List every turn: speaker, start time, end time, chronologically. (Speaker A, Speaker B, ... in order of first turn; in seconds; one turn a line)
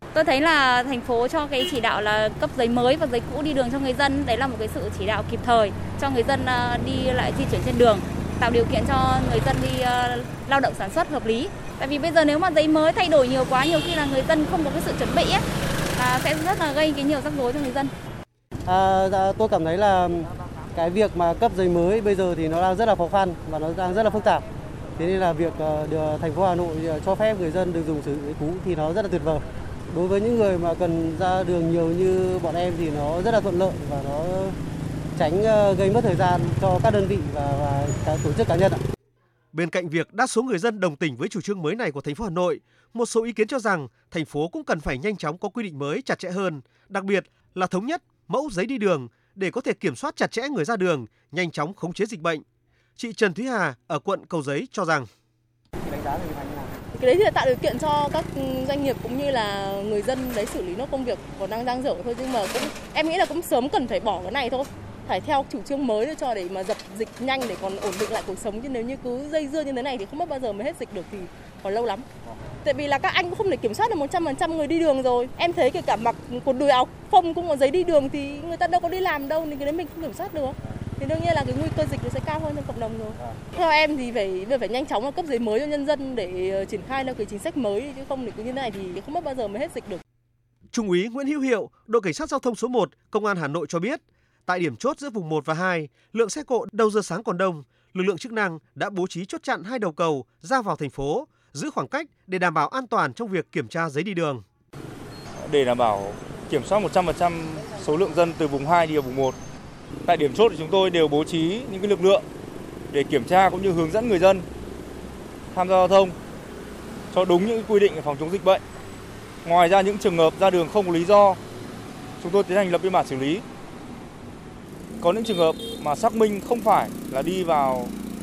Speaker A: 0.1-15.4
Speaker A: 15.9-17.9
Speaker B: 18.6-24.4
Speaker B: 25.0-34.6
Speaker B: 35.1-38.8
Speaker C: 39.5-52.4
Speaker C: 53.0-55.1
Speaker D: 56.9-72.1
Speaker D: 72.6-90.0
Speaker C: 90.7-104.4
Speaker E: 105.4-109.4
Speaker E: 110.0-112.2
Speaker E: 112.9-114.5
Speaker E: 115.5-116.2
Speaker E: 117.1-118.6
Speaker E: 119.4-121.4
Speaker E: 122.2-123.5
Speaker E: 125.0-127.9